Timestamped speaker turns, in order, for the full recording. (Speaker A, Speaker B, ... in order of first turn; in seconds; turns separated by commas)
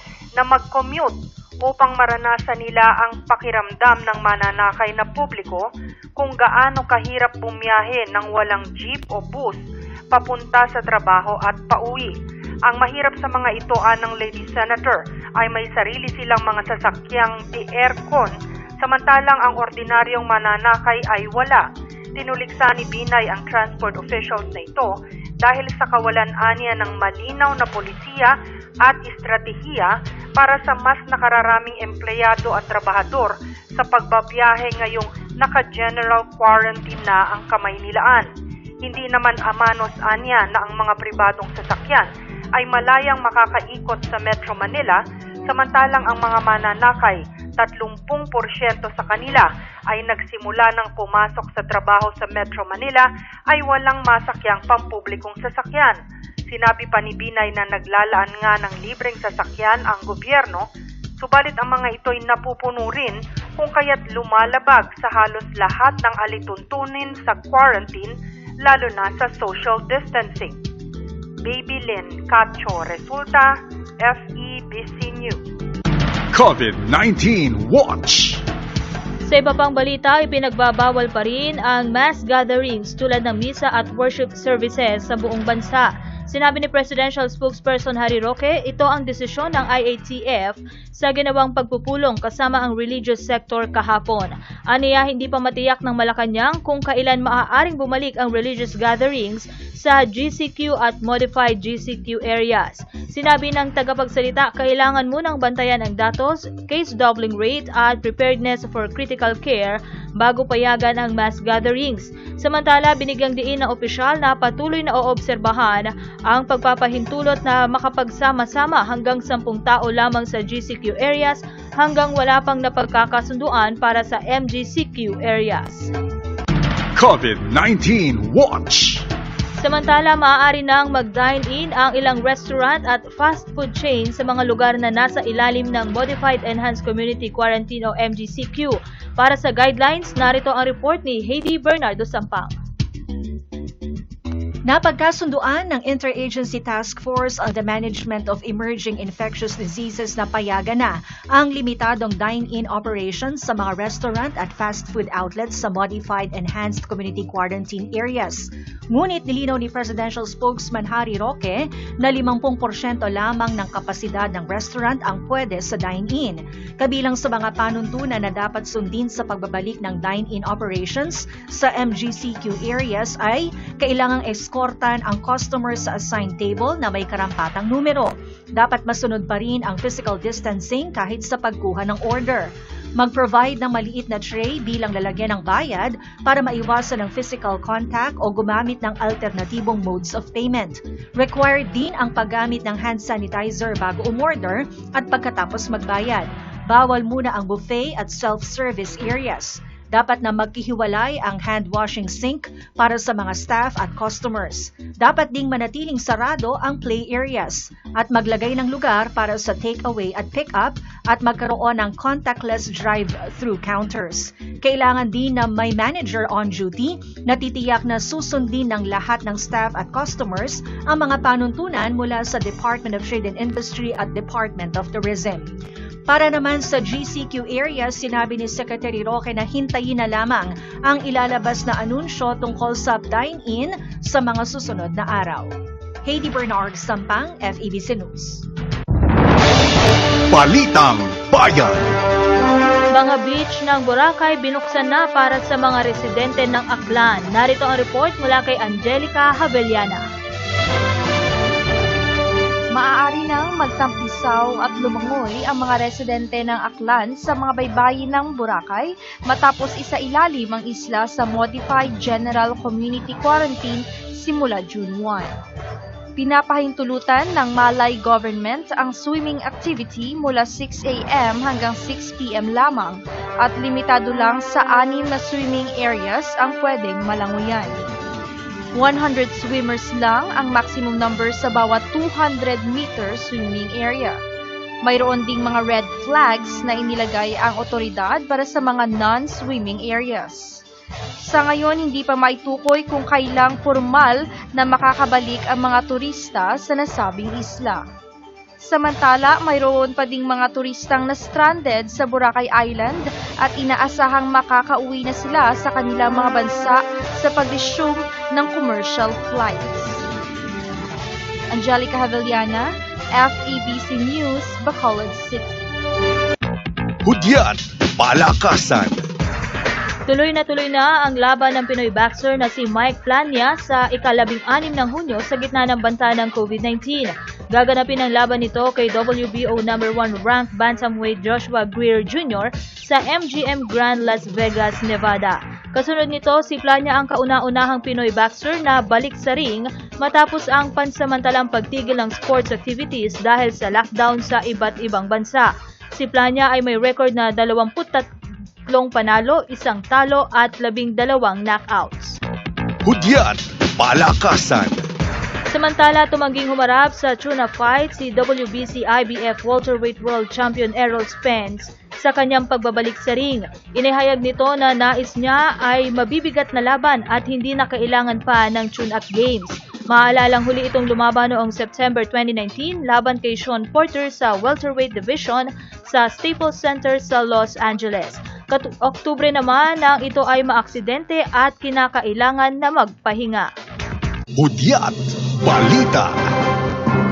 Speaker A: 0.4-5.6, Speaker A: 6.2-12.1, Speaker A: 12.7-21.6, Speaker A: 22.2-24.9, Speaker A: 25.4-38.2, Speaker A: 38.8-60.7, Speaker A: 61.2-68.1, Speaker A: 68.6-70.6, Speaker A: 71.4-75.4, Speaker B: 76.3-78.4, Speaker C: 79.2-125.9, Speaker B: 126.9-129.0, Speaker C: 129.6-142.5, Speaker D: 144.7-225.5, Speaker D: 226.1-235.5, Speaker D: 236.0-238.4, Speaker B: 240.3-241.8, Speaker C: 242.9-250.0, Speaker E: 252.7-265.3, Speaker E: 266.2-277.8, Speaker E: 278.7-284.2, Speaker E: 284.8-290.6, Speaker E: 291.2-297.8, Speaker E: 298.6-310.0, Speaker E: 311.5-312.6, Speaker E: 313.2-315.6, Speaker B: 317.0-319.0, Speaker C: 320.1-348.1, Speaker C: 348.7-352.2, Speaker B: 352.8-354.8, Speaker C: 355.5-383.5, Speaker B: 384.4-386.1